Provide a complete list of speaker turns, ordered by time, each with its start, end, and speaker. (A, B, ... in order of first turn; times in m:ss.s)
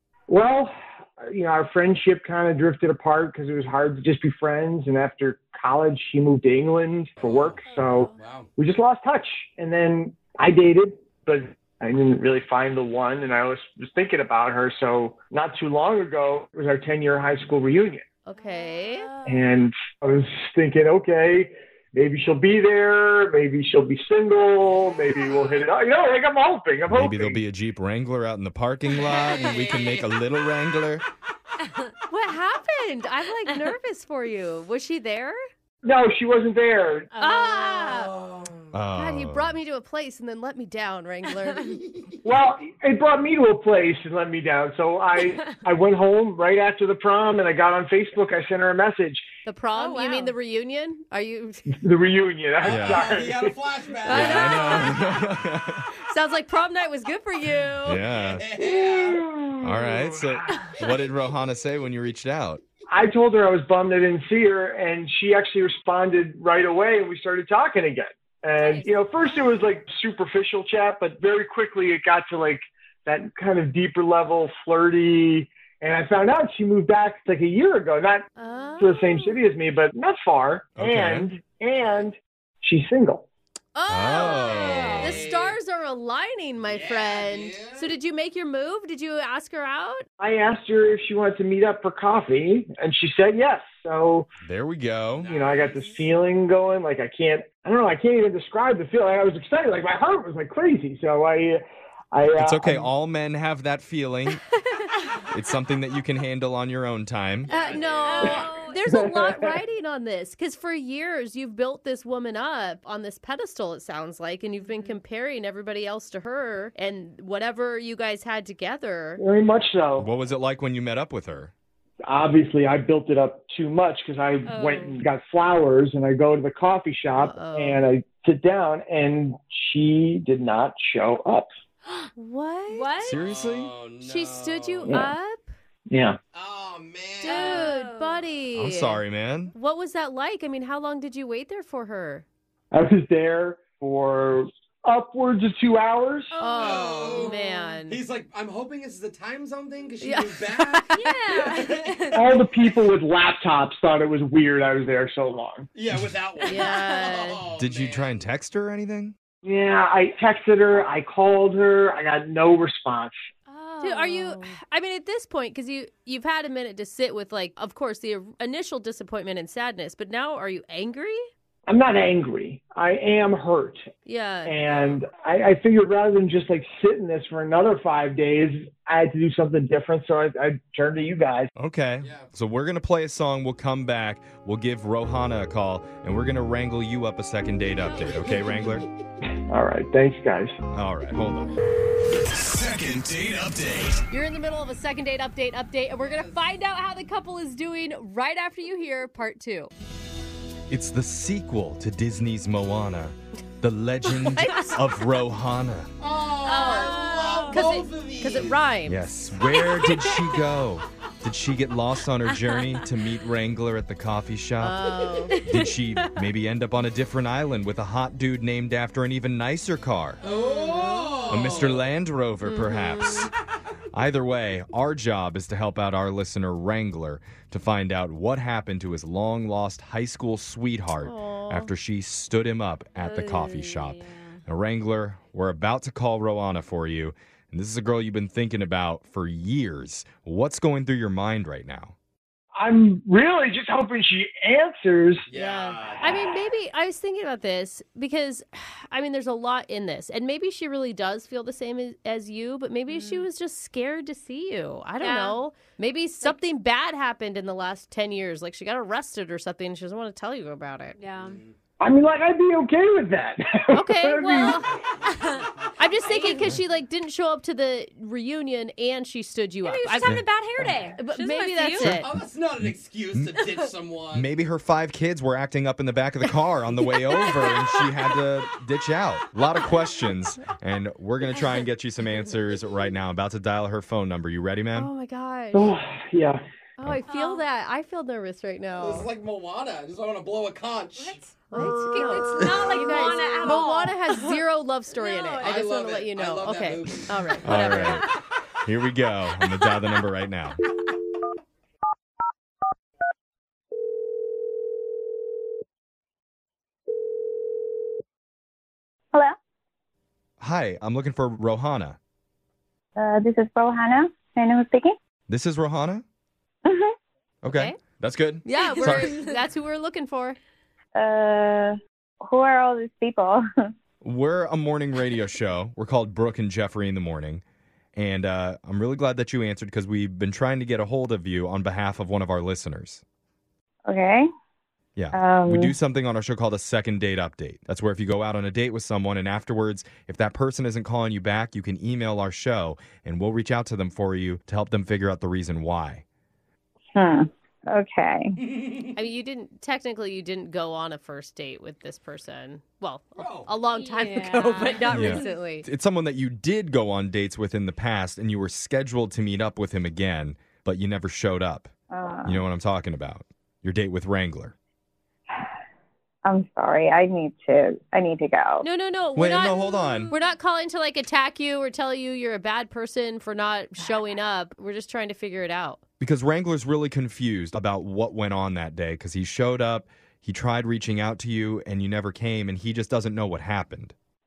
0:00.3-0:18.0 A
0:07.2-0:08.5 B
0:07.7-0:08.1 C
0:18.3-0:19.1 D
0:18.4-0:19.5 C
0:19.3-0:27.4 A
0:24.5-0:25.7 B
0:26.9-0:31.0 E
0:29.0-0:30.2 B
0:32.1-0:35.4 D
0:35.8-0:37.1 A
0:37.1-0:38.0 C
0:37.2-0:38.1 D
0:37.9-0:38.7 B
0:38.7-0:39.6 E
0:38.9-0:41.8 D
0:42.2-0:49.3 A
0:49.5-0:51.8 D
0:49.8-0:50.4 C
0:51.8-0:53.6 A
0:52.6-0:55.0 B
0:52.7-0:53.0 E
0:54.0-0:55.3 D
0:54.1-0:55.8 E
0:56.0-0:58.0 D
0:57.8-0:58.4 E
0:58.0-0:59.2 B
0:58.5-1:00.5 A
0:59.6-1:02.6 E
1:02.9-1:18.3 A
1:08.6-1:09.6 C
1:18.4-1:19.3 D
1:18.4-1:18.7 C
1:18.8-1:23.3 A
1:20.8-1:21.3 E
1:21.8-1:22.1 B
1:23.8-1:30.1 D
1:23.9-1:25.2 E
1:24.2-1:25.6 B
1:24.6-1:25.1 C
1:26.6-1:27.9 B
1:30.2-1:34.3 A
1:34.4-1:35.3 E
1:35.1-1:36.1 B
1:35.3-1:42.9 A
1:42.3-1:44.4 E
1:45.3-1:47.5 E
1:47.4-1:48.6 B
1:47.5-1:48.8 C
1:47.5-1:59.2 D
1:48.9-1:49.6 A
1:54.6-1:55.0 C
1:59.2-2:00.1 A
2:00.0-2:01.5 E
2:02.0-2:11.5 A
2:04.5-2:05.0 C
2:07.2-2:07.8 D
2:12.2-2:12.9 D
2:12.7-2:13.2 C
2:13.0-2:13.7 E
2:13.1-2:15.0 B
2:14.0-2:15.5 D
2:15.9-2:16.2 A
2:16.3-2:17.7 B
2:17.2-2:19.0 D
2:17.2-2:18.2 C
2:18.5-2:19.5 E
2:19.5-2:22.2 D
2:22.7-2:26.3 A
2:26.3-2:27.7 C
2:26.4-2:28.0 D
2:26.6-2:32.1 B
2:30.0-2:30.8 D
2:30.9-2:32.4 C
2:32.1-2:35.7 A
2:35.7-2:38.2 B
2:36.4-2:37.1 C
2:36.4-2:37.4 D
2:37.6-2:39.2 E
2:39.4-2:43.2 A
2:43.5-2:44.6 C
2:43.8-2:51.2 D
2:51.7-2:53.9 A
2:54.0-2:54.5 D
2:54.5-3:01.5 A
2:54.6-2:55.0 B
3:01.6-3:08.8 E
3:02.0-3:02.3 B
3:07.8-3:08.4 D
3:08.3-3:08.6 B
3:09.5-3:10.6 A
3:10.7-3:11.5 E
3:12.3-3:14.0 E
3:14.1-3:19.7 D
3:16.0-3:16.4 B
3:20.7-3:25.9 E
3:24.3-3:24.8 D
3:26.0-3:28.6 B
3:26.4-3:29.0 D
3:26.7-3:27.6 C
3:28.9-3:40.2 E
3:29.5-3:30.4 C
3:32.4-3:32.7 C
3:34.6-3:35.4 D
3:35.3-3:36.2 C
3:40.2-3:41.8 B
3:40.3-3:41.3 D
3:41.3-3:43.3 E
3:42.4-3:43.3 D
3:43.9-4:02.0 E
3:51.0-3:51.7 D
3:53.0-3:54.4 C
4:02.6-4:05.3 A
4:05.3-4:06.3 B
4:05.4-4:21.0 D
4:12.9-4:13.2 C
4:15.0-4:15.4 C
4:21.0-4:21.4 C
4:21.2-4:21.5 B
4:21.8-4:24.6 A
4:23.7-4:24.7 D
4:25.1-4:25.4 C
4:25.8-4:30.2 D
4:26.1-4:26.4 C
4:29.6-4:32.0 C
4:30.0-4:30.8 E
4:31.0-4:32.1 D
4:31.8-4:33.4 E
4:32.0-4:34.3 B
4:34.1-4:44.9 E
4:37.4-4:37.7 C
4:41.3-4:41.6 C
4:44.8-4:45.7 D
4:45.5-4:46.4 A
4:46.8-4:49.1 D
4:47.1-4:47.4 C
4:48.8-4:51.2 B
4:51.0-4:54.4 C
4:51.5-4:58.1 D
4:51.8-4:52.4 B
4:55.0-4:55.6 C
4:55.4-4:57.9 B
4:57.4-4:58.1 E
4:58.6-5:00.6 E
5:10.4-5:12.0 E
5:13.0-5:15.0 F
5:15.3-5:16.0 E
5:16.6-5:16.9 F
5:17.4-5:19.2 E
5:17.5-5:17.8 D
5:18.4-5:20.4 D
5:21.0-5:23.4 F
5:24.0-5:27.4 E
5:28.0-5:33.0 E
5:33.9-5:34.3 F
5:35.0-5:46.0 E
5:35.1-5:35.8 F
5:47.0-5:48.4 F
5:48.4-5:48.8 B
5:49.0-5:55.7 D
5:53.2-5:53.5 B
5:53.7-5:55.3 C
5:54.9-6:01.7 E
6:01.9-6:02.4 F
6:02.2-6:04.6 E
6:06.2-6:08.7 F
6:08.6-6:15.8 D
6:09.2-6:10.1 E
6:09.6-6:10.3 C
6:16.0-6:23.9 E